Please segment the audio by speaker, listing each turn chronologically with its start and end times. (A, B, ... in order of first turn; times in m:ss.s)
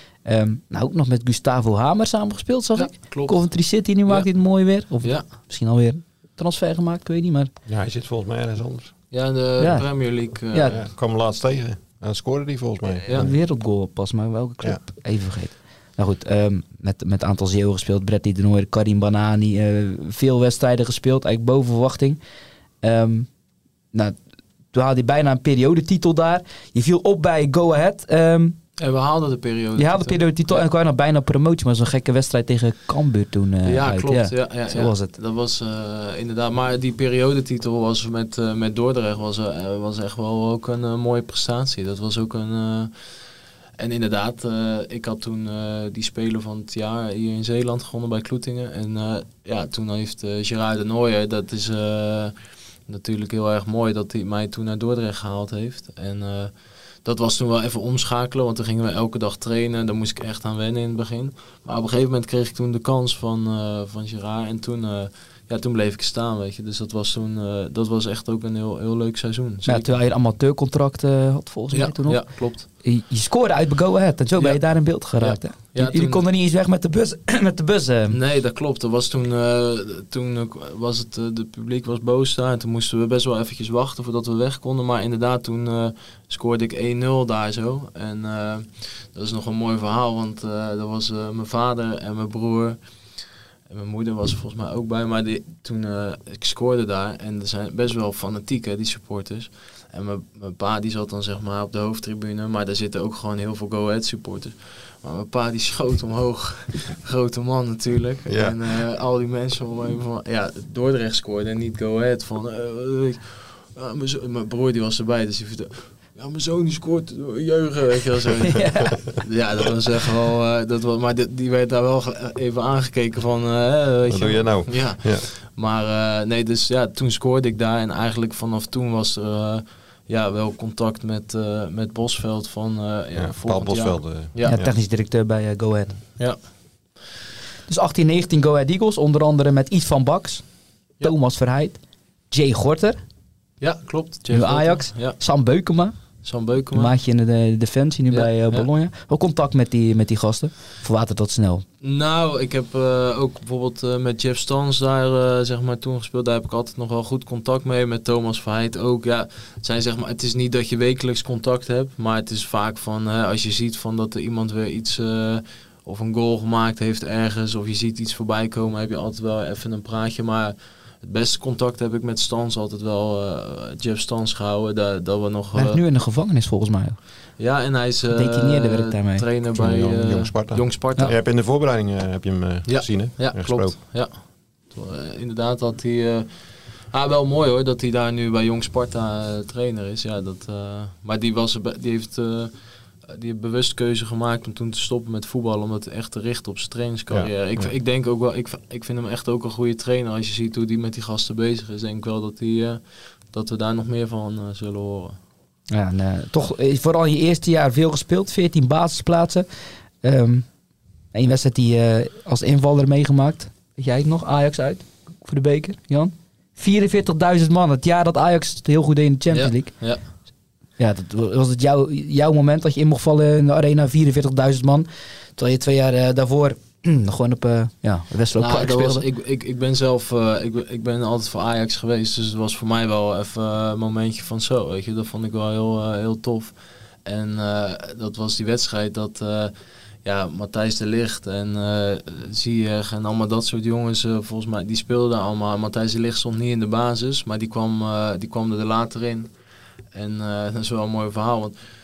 0:00.2-0:07.5 A
0:02.8-0:04.3 B
0:05.0-0:05.3 B
0:07.7-0:09.0 C
0:09.1-0:10.8 B
0:09.6-0:10.8 A
0:10.7-0:13.4 C
0:13.1-0:22.2 A
0:22.8-0:23.3 A
0:24.7-0:28.6 A
0:28.8-0:30.7 B
0:29.8-0:35.2 A
0:33.6-0:43.3 B
0:43.8-1:09.9 B
1:09.6-1:18.2 A
1:11.7-1:12.7 B
1:14.4-1:16.2 B
1:18.1-1:58.7 B
1:48.3-1:48.6 C
1:58.5-1:59.2 A
1:59.2-2:14.6 B
2:04.1-2:05.3 C
2:13.2-2:14.7 C
2:14.5-2:16.1 A
2:16.2-2:16.4 B
2:17.7-2:23.0 A
2:23.6-2:25.2 B
2:24.3-2:31.6 A
2:26.2-2:26.9 B
2:28.1-2:28.7 B
2:31.8-2:55.8 B
2:55.6-2:57.0 A
2:57.4-3:01.1 B
2:58.1-2:59.3 A
2:59.5-3:03.8 C
3:02.7-3:25.2 B
3:17.1-3:17.7 C
3:25.7-3:30.6 A
3:31.1-3:40.1 A
3:39.3-3:40.1 B
3:40.8-3:49.0 A
3:48.4-3:59.5 B
4:00.0-4:09.3 B
4:09.9-4:11.6 B